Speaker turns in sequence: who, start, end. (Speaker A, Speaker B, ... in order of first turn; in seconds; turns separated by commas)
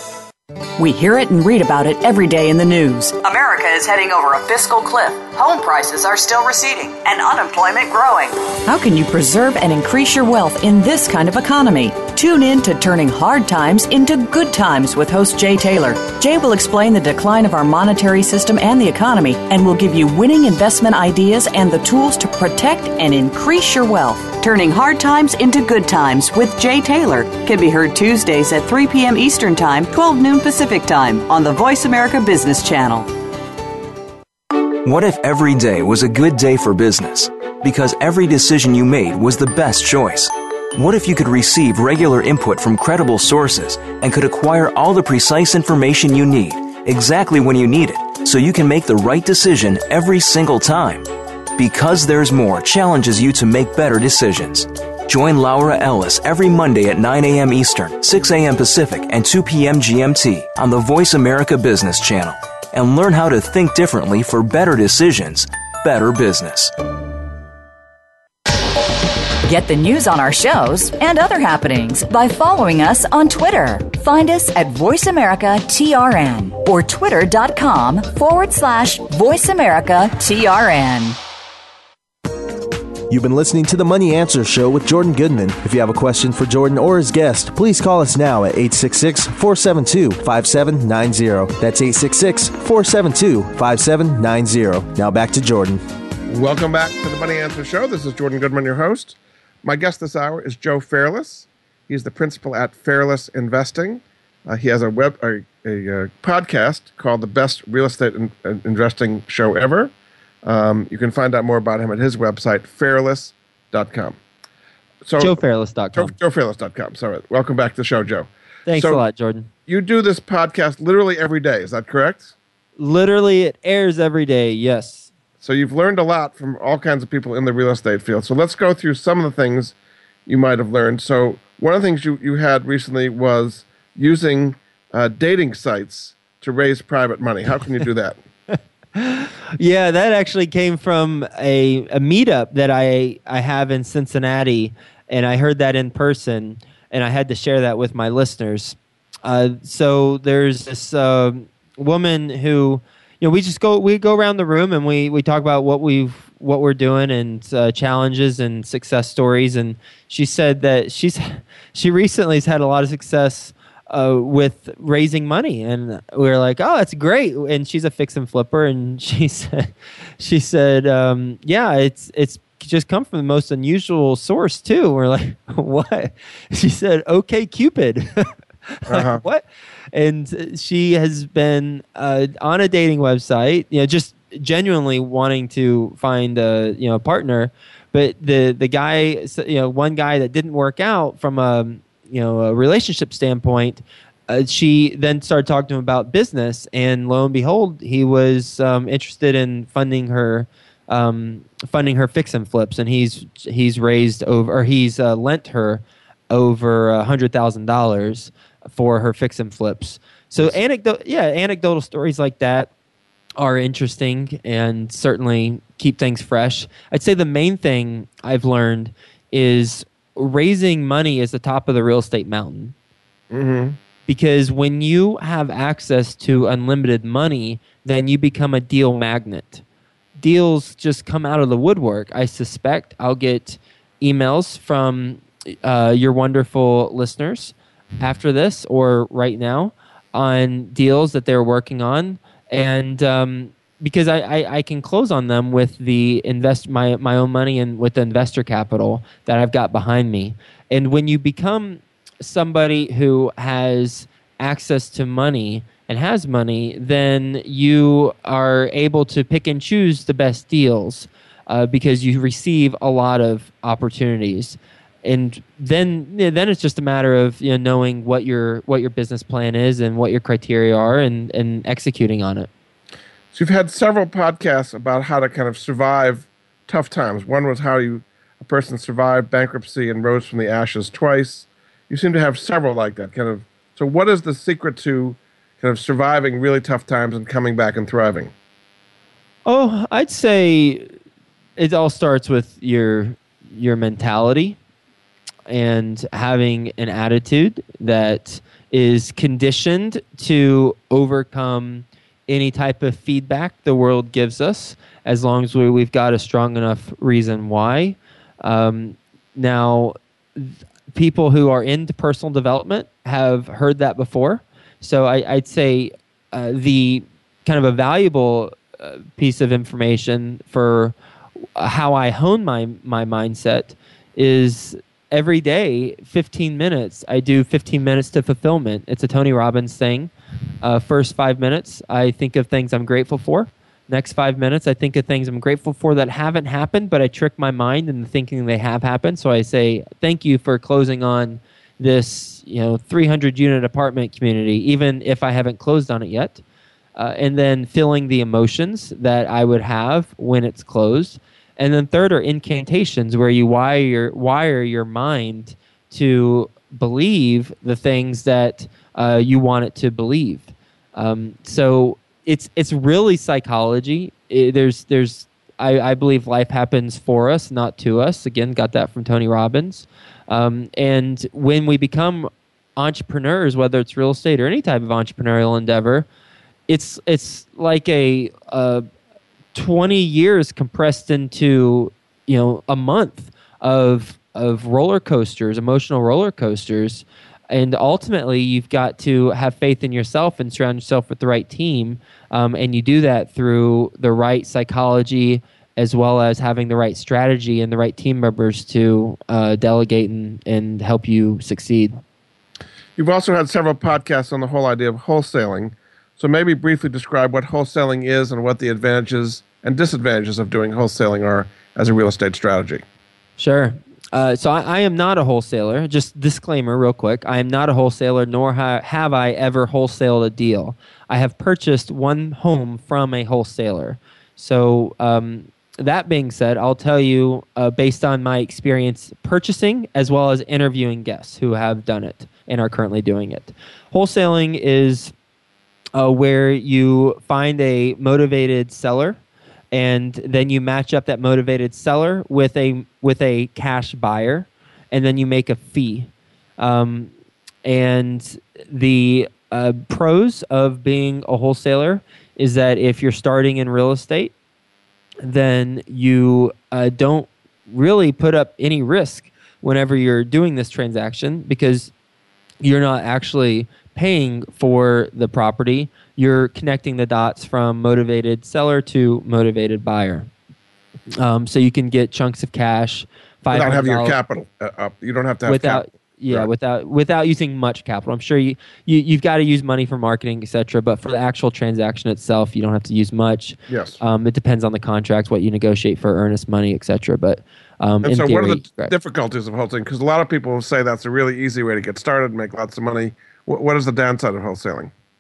Speaker A: 0.8-33.1, Speaker B: 34.8-66.7, Speaker C: 69.4-81.2, Speaker D: 83.1-95.8, Speaker E: 96.3-109.9, Speaker E: 110.4-114.2, Speaker E: 115.0-115.4, Speaker F: 115.2-116.1, Speaker E: 116.0-119.0, Speaker F: 118.7-119.5, Speaker E: 119.7-122.3, Speaker F: 122.8-125.1, Speaker E: 125.4-129.8, Speaker E: 130.3-138.2, Speaker F: 138.9-212.7, Speaker E: 178.9-179.2, Speaker F: 213.4-222.7, Speaker E: 223.3-223.8, Speaker F: 224.1-229.6, Speaker F: 230.2-272.5, Speaker E: 273.3-288.3, Speaker F: 289.5-290.9, Speaker F: 291.6-294.6, Speaker F: 295.5-320.9, Speaker F: 321.6-330.1, Speaker F: 330.6-346.4, Speaker F: 347.0-376.1, Speaker F: 376.7-378.9, Speaker F: 379.5-402.0, Speaker E: 403.0-412.8, Speaker F: 413.4-435.1, Speaker F: 435.9-439.2, Speaker F: 439.7-447.1, Speaker F: 447.6-454.3, Speaker F: 455.2-461.9, Speaker F: 462.6-470.3, Speaker F: 471.2-474.2, Speaker E: 473.5-476.5, Speaker F: 475.5-488.9, Speaker E: 483.7-484.0, Speaker E: 488.0-494.9